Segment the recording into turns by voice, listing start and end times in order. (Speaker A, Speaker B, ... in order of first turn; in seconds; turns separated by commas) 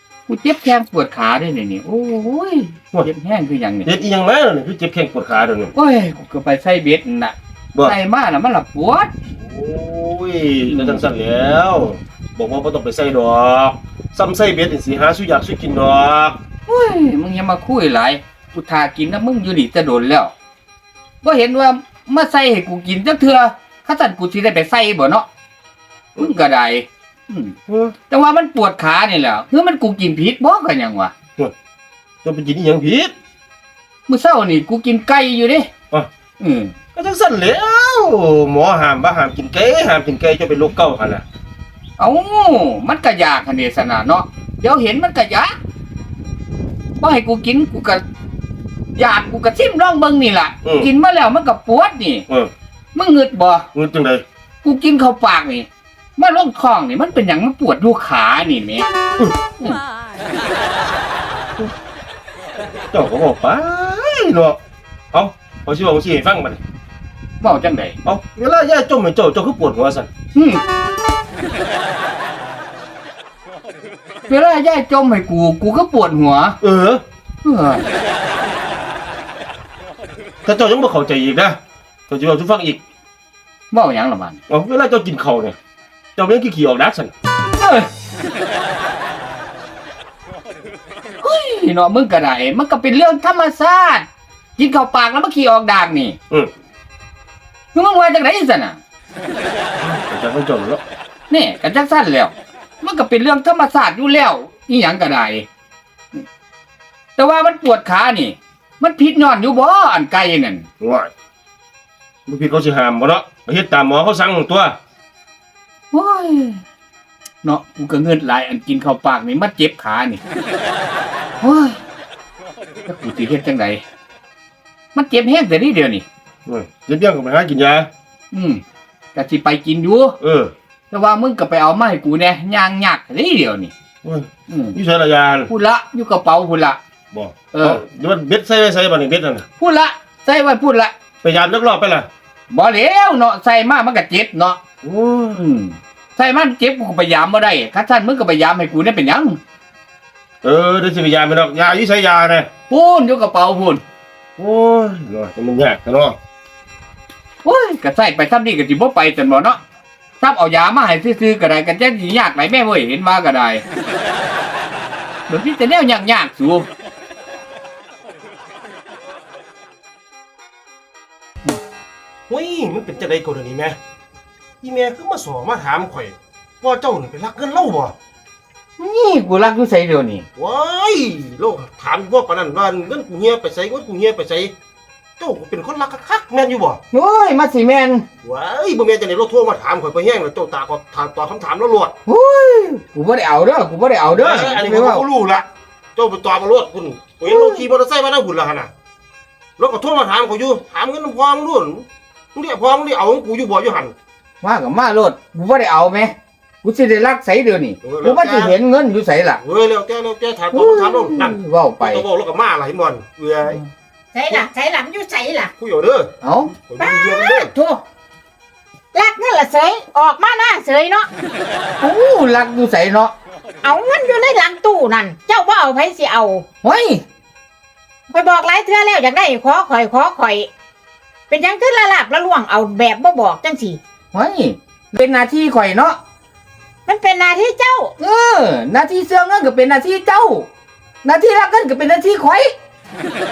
Speaker A: 0.3-3.9, Speaker B: 3.9-5.7, Speaker A: 5.8-9.1, Speaker B: 9.3-16.4, Speaker A: 10.7-11.0, Speaker A: 16.7-20.3, Speaker A: 21.2-25.3, Speaker A: 26.2-27.6, Speaker B: 27.7-27.9, Speaker A: 28.1-31.1, Speaker B: 32.2-33.1, Speaker A: 34.1-35.7, Speaker A: 36.4-36.7, Speaker B: 37.0-41.2, Speaker A: 42.0-45.6, Speaker A: 47.0-48.0, Speaker A: 49.0-52.3, Speaker B: 50.6-50.9, Speaker A: 53.0-53.7, Speaker B: 53.7-54.2, Speaker A: 54.6-58.9, Speaker B: 62.9-64.6, Speaker B: 65.1-66.6, Speaker A: 67.4-68.0, Speaker B: 68.0-70.1, Speaker A: 70.3-70.6, Speaker A: 74.3-76.6, Speaker B: 76.6-77.0, Speaker A: 77.4-77.8, Speaker B: 80.5-82.8, Speaker A: 83.7-84.4, Speaker B: 84.5-85.6, Speaker B: 86.2-87.1, Speaker A: 87.6-87.9, Speaker A: 91.2-94.1, Speaker A: 94.6-96.2, Speaker A: 97.7-98.8, Speaker B: 99.8-100.8, Speaker A: 101.3-105.5, Speaker A: 107.2-110.7, Speaker B: 110.8-111.1, Speaker B: 112.3-114.8, Speaker A: 115.9-116.6, Speaker A: 117.4-120.2, Speaker A: 121.4-121.8, Speaker A: 122.9-123.8, Speaker A: 125.0-126.0, Speaker B: 126.5-127.9, Speaker A: 128.3-128.6, Speaker A: 129.2-130.2, Speaker B: 130.2-130.5, Speaker A: 130.9-133.7, Speaker B: 134.0-135.5, Speaker A: 134.5-134.8, Speaker A: 135.5-136.8, Speaker B: 137.1-139.5, Speaker A: 137.5-137.8, Speaker A: 139.6-140.9, Speaker B: 141.2-142.1, Speaker A: 142.5-144.6, Speaker B: 144.8-145.4, Speaker A: 145.4-149.4, Speaker B: 150.4-152.5, Speaker A: 152.7-153.8, Speaker B: 154.4-156.2, Speaker A: 157.4-159.6, Speaker A: 160.2-163.7, Speaker A: 165.3-166.7, Speaker B: 172.3-173.8, Speaker B: 174.6-177.9, Speaker A: 178.8-180.3, Speaker B: 180.4-184.6, Speaker B: 185.2-186.8, Speaker A: 186.9-188.1, Speaker B: 188.2-191.9, Speaker A: 192.1-195.1, Speaker B: 194.1-198.7, Speaker A: 197.2-197.7, Speaker B: 199.6-203.9, Speaker A: 204.4-209.4, Speaker B: 207.8-208.6, Speaker B: 209.4-213.6, Speaker A: 210.5-212.1, Speaker C: 214.1-215.5, Speaker B: 215.6-217.5, Speaker A: 216.2-216.5, Speaker C: 216.8-217.8, Speaker C: 218.9-221.1, Speaker A: 221.8-223.1, Speaker C: 223.6-226.4, Speaker A: 226.6-227.0, Speaker C: 228.1-230.5, Speaker C: 231.3-233.8, Speaker A: 234.1-236.0, Speaker C: 236.9-237.9, Speaker A: 238.0-240.5, Speaker A: 241.0-242.5